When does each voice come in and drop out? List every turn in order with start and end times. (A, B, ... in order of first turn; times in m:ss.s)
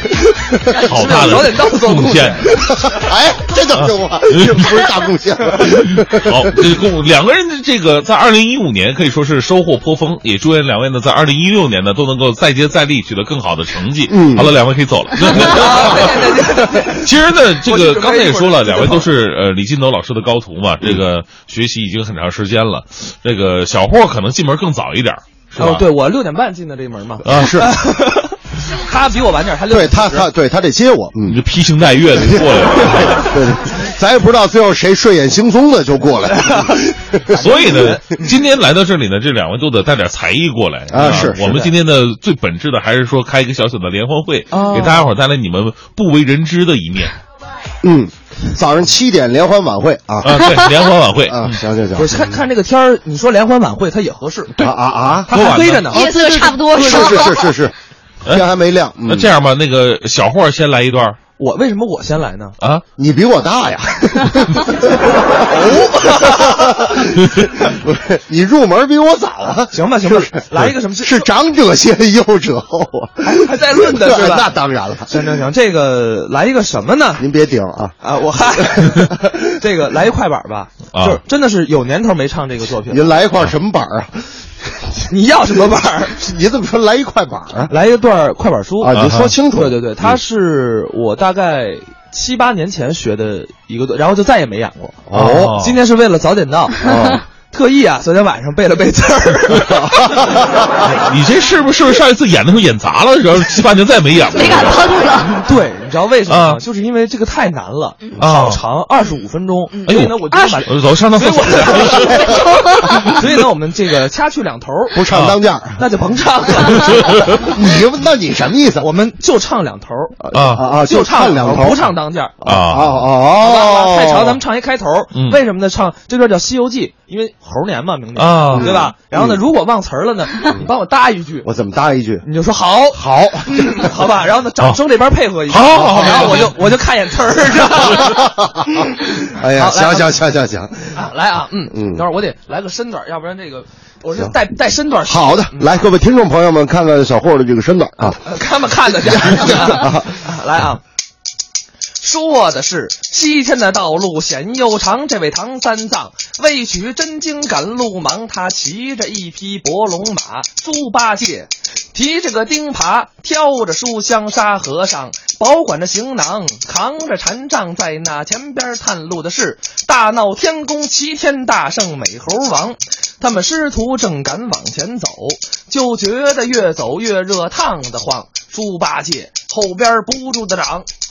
0:00.7-0:02.6 A
0:00.9-0:02.5 B
0:02.6-0:06.6 C
0:03.7-0:04.9 B
0:05.9-0:16.1 B
0:14.1-0:14.5 C
0:15.4-0:17.1 A
0:15.6-0:16.1 C
0:17.0-0:25.9 B
0:17.6-0:19.1 A
0:25.6-0:30.3 A
0:27.2-0:27.7 C
0:27.3-0:27.6 B
0:29.7-0:31.4 C
0:31.3-0:33.3 B
0:32.2-0:37.8 C
0:36.4-0:36.7 A
0:37.3-0:38.3 A
0:37.4-0:47.1 B
0:40.9-0:41.6 C
0:41.0-0:41.6 A
0:44.5-0:45.0 A
0:47.8-0:50.4 C
0:50.2-0:51.6 B
0:51.3-0:52.4 C
0:52.0-0:54.5 A
0:54.6-0:55.3 C
0:55.3-0:56.0 B
0:55.3-0:57.2 A
0:55.9-0:57.5 D
0:56.5-0:57.7 C
0:58.3-0:59.3 C
0:59.1-1:01.2 B
1:01.4-1:02.6 A
1:03.0-1:05.5 C
1:05.5-1:06.7 A
1:06.1-1:15.2 C
1:09.7-1:11.3 A
1:13.2-1:14.5 A
1:15.1-1:17.2 A
1:17.2-1:18.0 C
1:18.0-1:19.1 A
1:18.8-1:19.4 C
1:19.6-1:23.2 A
1:20.9-1:21.2 B
1:22.9-1:25.0 C
1:25.1-1:26.2 A
1:26.1-1:27.7 C
1:27.7-1:36.8 A
1:28.8-1:29.9 C
1:29.0-1:29.3 B
1:35.1-1:35.8 B
1:35.2-1:35.5 C
1:36.8-1:37.2 C
1:37.5-1:40.0 A
1:40.0-1:40.4 C
1:40.8-1:44.9 B
1:44.3-1:45.4 D
1:45.4-1:52.1 A
1:46.3-1:46.6 B
1:48.2-1:48.6 B
1:49.8-1:50.6 D
1:49.9-1:52.2 B
1:52.2-1:53.1 D
1:53.0-1:55.0 A
1:54.9-1:55.8 C
1:55.1-1:55.4 B
1:55.8-1:56.9 A
1:56.8-1:57.4 B
1:57.4-1:58.9 C
1:58.8-2:00.2 A
2:00.2-2:04.4 C
2:00.3-2:00.6 B
2:00.8-2:02.3 A
2:02.4-2:03.0 B
2:03.4-2:11.5 A
2:08.2-2:08.8 B
2:08.5-2:09.4 C
2:11.4-2:12.3 C
2:12.2-2:18.2 A
2:12.9-2:13.9 C
2:15.5-2:16.5 B
2:15.8-2:16.4 C
2:17.7-2:20.9 C
2:19.6-2:20.1 A
2:21.0-2:25.8 A
2:21.7-2:22.0 C
2:25.1-2:28.2 C
2:28.1-2:30.8 A
2:29.0-2:30.1 C
2:32.0-3:00.9 A